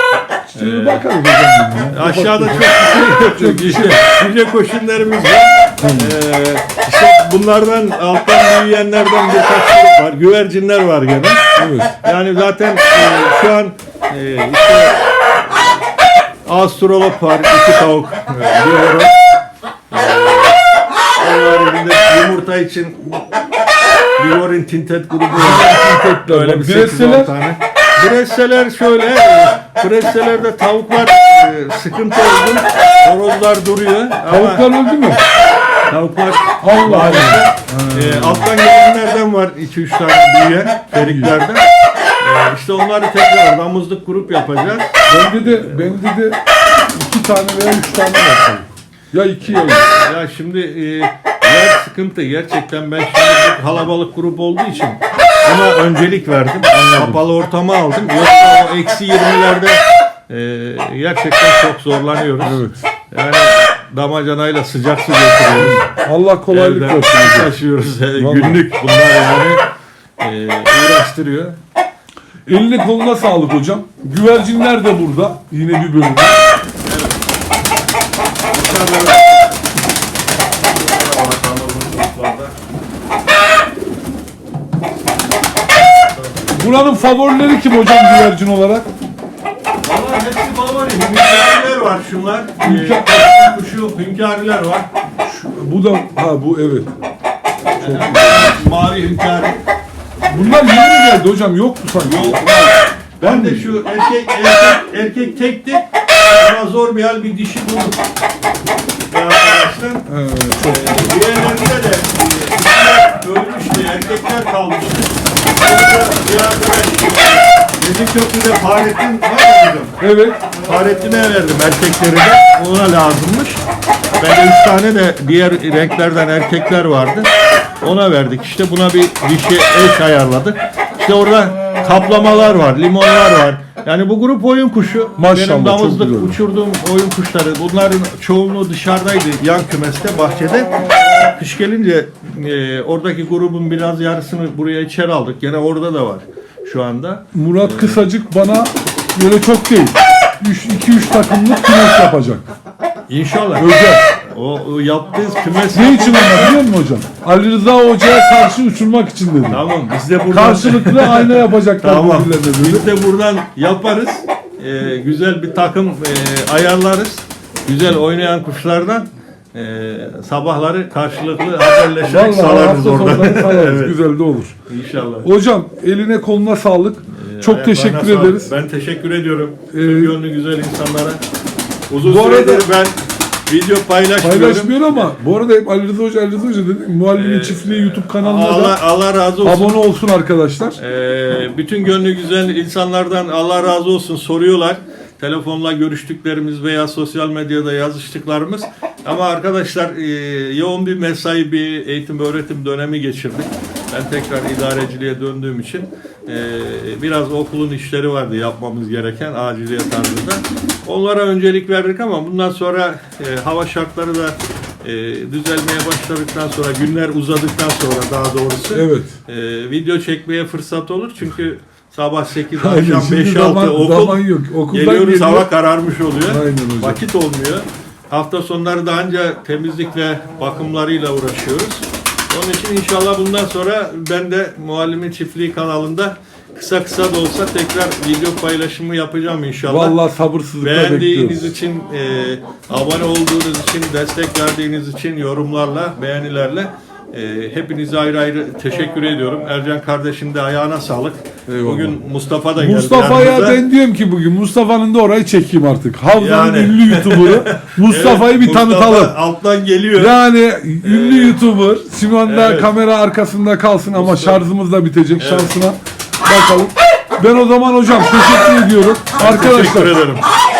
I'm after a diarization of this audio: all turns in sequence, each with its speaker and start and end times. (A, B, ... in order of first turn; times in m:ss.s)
0:00.5-0:04.0 A
0:00.6-0:01.0 B
0:01.9-0:11.4 B
0:05.8-0:06.1 A
0:11.6-0:11.9 A
0:12.0-0:15.7 B
0:16.4-0:19.1 B
0:19.9-0:20.6 B
0:21.2-0:23.2 B
0:24.2-0:34.6 B
0:25.3-0:27.3 A
0:34.3-0:35.2 A
0:35.9-0:41.6 B
0:36.6-0:38.5 A
0:41.0-0:41.4 A
0:42.2-0:46.0 B
0:45.1-0:46.4 A
0:46.9-0:49.9 A
0:49.4-1:05.8 B
0:56.7-0:57.2 A
1:02.4-1:02.8 A
1:05.5-1:07.5 A
1:06.5-1:09.6 B
1:08.2-1:08.6 A
1:10.2-1:11.6 B
1:12.5-1:16.4 A
1:16.8-1:17.2 B
1:18.5-1:19.5 B
1:20.5-1:22.5 B
1:26.1-1:26.7 B
1:26.5-1:28.9 A
1:29.8-1:34.9 B
1:32.6-1:33.1 A
1:35.2-1:36.9 A
1:37.8-1:38.6 A
1:37.8-1:39.6 B
1:40.3-1:42.7 A
1:42.0-1:48.0 B
1:43.2-1:43.8 A
1:49.1-1:50.1 B
1:50.1-1:51.1 A
1:50.6-2:00.0 B
2:00.0-2:00.4 A
2:00.6-2:03.6 B
2:04.2-2:07.3 B
2:07.8-2:28.0 B
2:15.2-2:16.4 A
2:27.3-2:32.5 A
2:33.1-2:36.6 B
2:33.6-2:34.0 A
2:35.7-2:39.6 A
2:39.5-2:54.0 B
2:40.3-2:42.8 A
2:52.0-2:54.6 A
2:54.7-2:55.3 B
2:55.2-2:58.5 A
2:57.1-3:01.2 B
2:59.7-3:00.2 A
3:01.9-3:05.1 B
3:02.0-3:02.7 A
3:04.2-3:08.8 A
3:07.1-3:09.7 B
3:09.4-3:10.8 A
3:10.8-4:00.0 B
3:38.7-3:39.1 A
3:42.5-3:45.5 A
3:46.3-3:47.0 A
3:59.6-4:01.5 A
4:00.6-4:13.6 B
4:11.5-4:12.0 A
4:12.6-4:19.2 A
4:16.1-4:20.1 B
4:19.9-4:29.9 A
4:20.8-4:21.4 B
4:22.2-4:22.7 B
4:23.9-4:24.4 B
4:25.2-4:25.6 B
4:29.2-4:30.2 B